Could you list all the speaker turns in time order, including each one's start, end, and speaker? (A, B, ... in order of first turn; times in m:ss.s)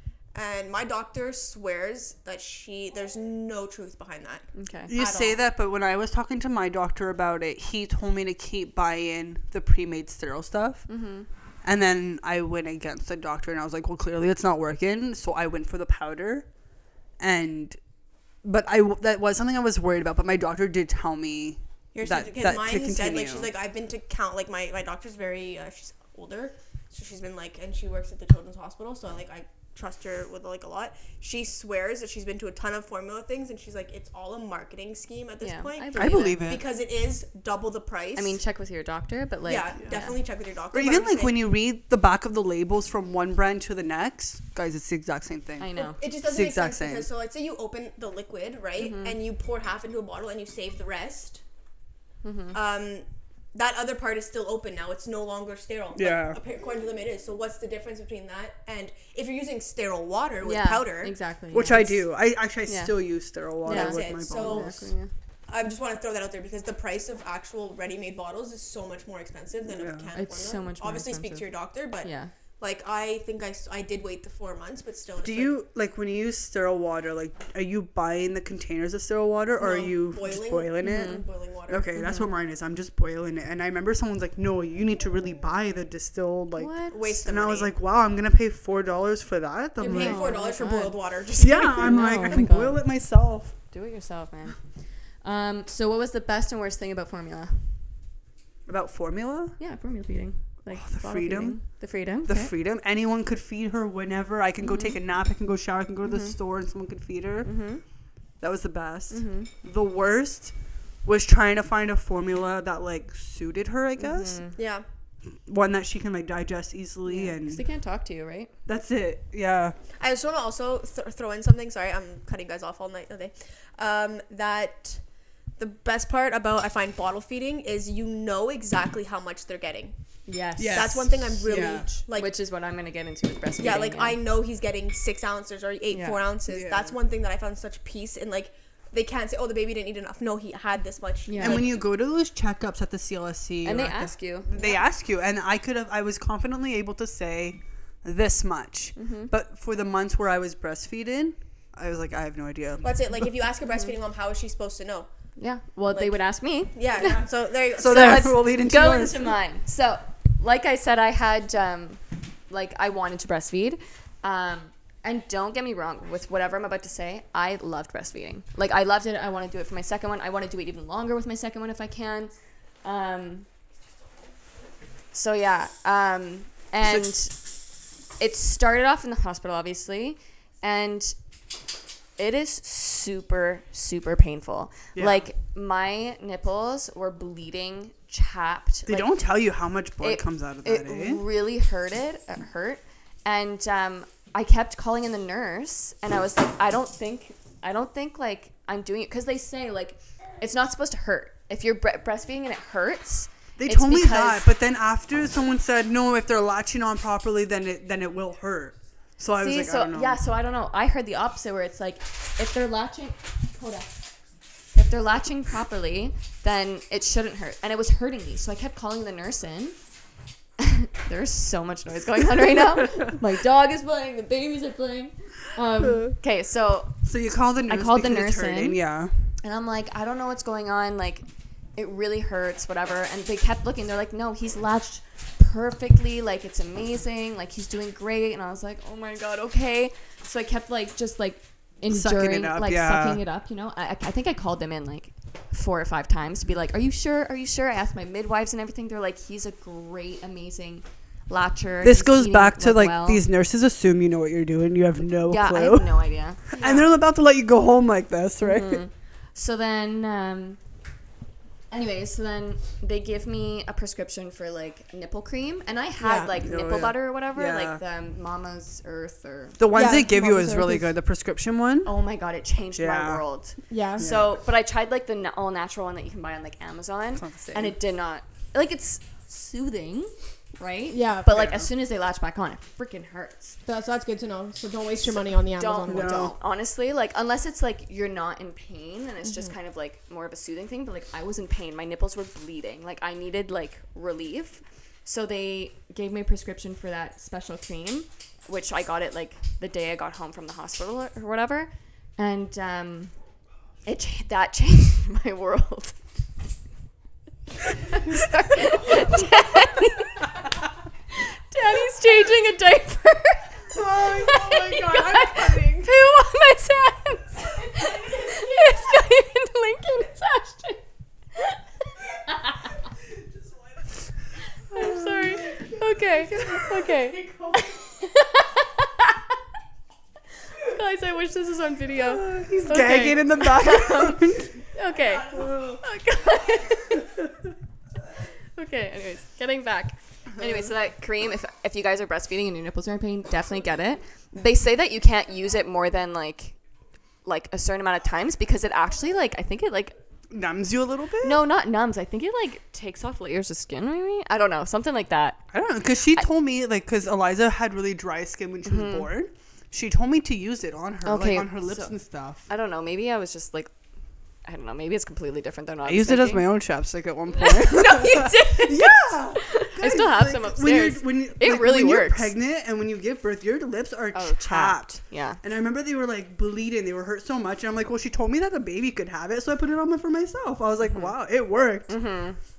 0:00.3-0:05.4 A
0:04.5-0:04.9 B
0:04.9-0:23.5 C
0:10.9-0:11.3 B
0:21.9-0:38.4 A
0:35.4-0:36.4 B
0:36.0-0:36.6 C
0:38.2-0:40.2 B
0:39.4-0:41.4 A
0:40.7-0:47.1 C
0:45.6-0:46.0 B
0:45.8-0:51.4 A
0:48.8-0:49.2 B
0:52.2-0:52.6 B
0:52.5-1:01.8 A
0:56.0-0:56.4 C
1:00.4-1:02.0 B
1:01.5-1:04.9 C
1:02.7-1:05.1 B
1:03.6-1:04.9 A
1:05.5-1:15.6 A
1:09.7-1:10.1 C
1:10.1-1:11.5 B
1:12.0-1:12.3 B
1:15.2-1:30.4 C
1:19.6-1:22.0 A
1:20.8-1:21.3 B
1:22.0-1:22.3 B
1:26.6-1:27.0 B
1:26.9-1:27.8 A
1:29.8-1:32.4 A
1:29.9-1:31.0 B
1:31.4-1:33.7 C
1:31.8-1:37.9 B
1:38.7-1:39.6 C
1:39.6-1:42.5 B
1:40.7-1:54.4 C
1:44.6-1:45.0 B
1:46.0-1:46.4 B
1:47.4-1:47.9 B
1:49.1-1:49.5 B
1:54.0-1:54.6 B
1:54.6-1:54.8 A
1:55.4-1:57.7 C
1:57.1-1:58.5 B
1:58.7-1:59.8 C
2:00.0-2:12.3 A
2:10.3-2:14.2 B
2:10.6-2:11.9 C
2:13.6-2:21.8 A
2:15.9-2:16.2 B
2:16.5-2:17.0 C
2:21.3-2:21.6 B
2:21.4-2:33.3 C
2:23.6-2:24.5 B
2:24.5-2:24.9 A
2:29.0-2:29.3 B
2:32.8-2:35.1 A
2:33.7-2:33.9 B
2:35.4-2:53.5 B
2:35.9-2:38.4 A
2:37.7-2:39.4 C
2:55.1-3:01.4 B
2:56.8-2:57.1 C
3:02.2-3:09.2 B
3:05.0-3:05.2 C
3:08.9-3:11.2 C
3:10.0-3:24.5 B
3:23.6-3:30.2 C
3:29.4-3:40.1 B
3:41.0-4:13.2 B
3:45.8-3:46.2 C
3:47.0-3:49.4 C
4:01.9-4:03.2 C
4:11.8-4:18.9 C
4:15.3-4:16.6 B
4:16.6-4:16.9 A
4:18.4-4:20.8 B
4:21.7-4:30.0 B
4:26.0-4:26.3 A
4:26.4-4:27.8 C
4:29.6-4:31.9 C
4:29.7-4:30.9 A
4:31.8-4:43.6 B
4:32.8-4:34.4 C
4:33.7-4:34.1 A
4:37.2-4:37.8 C
4:40.9-4:41.4 A
4:41.3-4:41.7 C
4:43.6-4:46.3 A
4:45.0-5:03.3 B
4:45.9-4:46.3 C
4:49.2-4:49.6 A
5:03.8-5:06.4 B
5:07.9-5:10.3 B
5:11.1-5:20.8 B
5:13.8-5:15.3 C
5:14.1-5:15.8 A
5:17.8-5:18.9 A
5:21.4-5:21.6 B
5:22.3-5:22.6 B
5:24.7-5:29.2 B
5:24.8-5:25.3 C
5:26.4-5:27.6 A
5:30.7-5:37.0 B
5:32.1-5:34.6 C
5:35.4-5:35.8 C
5:38.5-5:46.6 B
5:47.2-5:50.0 B
5:50.3-5:51.4 C
5:51.2-5:56.3 B
5:55.5-6:02.4 C
5:58.6-5:59.1 B
6:01.0-6:03.8 B
6:04.4-6:06.4 B
6:05.8-6:22.0 C
6:07.4-6:12.3 B
6:14.1-6:15.4 B
6:20.9-6:21.1 B
6:21.9-6:22.4 B